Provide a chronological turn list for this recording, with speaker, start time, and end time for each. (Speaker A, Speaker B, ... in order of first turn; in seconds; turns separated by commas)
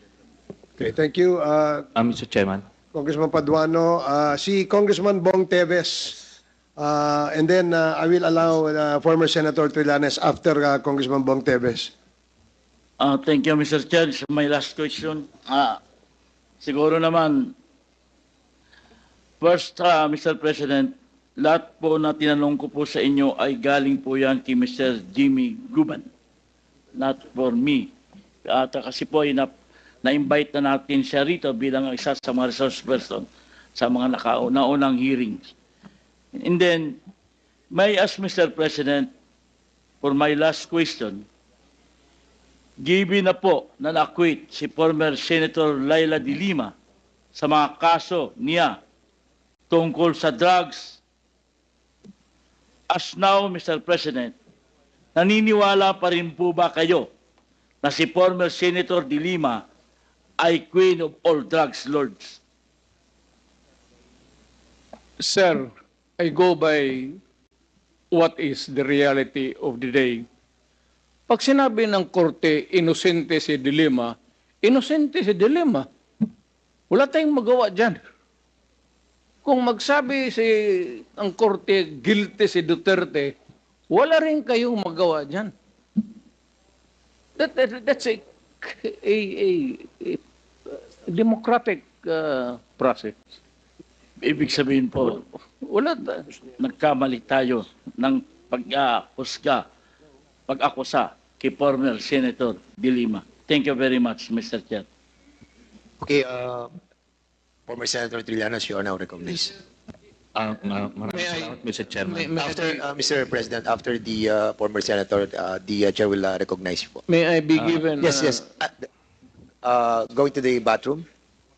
Speaker A: 0.8-1.9, Speaker B: 2.0-2.6, Speaker A: 2.9-6.2, Speaker A: 6.8-11.9, Speaker C: 13.0-15.8, Speaker C: 16.6-17.5, Speaker C: 19.4-26.0, Speaker C: 27.0-27.9, Speaker C: 28.5-29.5, Speaker C: 30.0-35.5, Speaker C: 36.4-37.0, Speaker C: 37.7-39.1, Speaker C: 40.0-41.2, Speaker C: 42.8-46.7, Speaker C: 47.4-48.8, Speaker C: 49.7-51.0, Speaker C: 52.9-54.4, Speaker C: 55.1-57.1, Speaker C: 57.8-59.6, Speaker C: 60.4-62.4, Speaker D: 65.2-67.2, Speaker D: 68.1-70.2, Speaker D: 71.3-75.9, Speaker D: 76.9-78.0, Speaker D: 79.4-83.3, Speaker D: 83.9-85.5, Speaker D: 87.4-90.2, Speaker D: 91.1-93.2, Speaker C: 94.2-95.2, Speaker D: 95.1-96.3, Speaker C: 96.6-99.6, Speaker C: 100.5-104.9, Speaker E: 106.0-106.7, Speaker E: 107.7-109.5, Speaker B: 110.4-112.4, Speaker D: 111.1-112.8, Speaker E: 112.4-117.0, Speaker D: 117.1-118.4, Speaker E: 119.6-121.0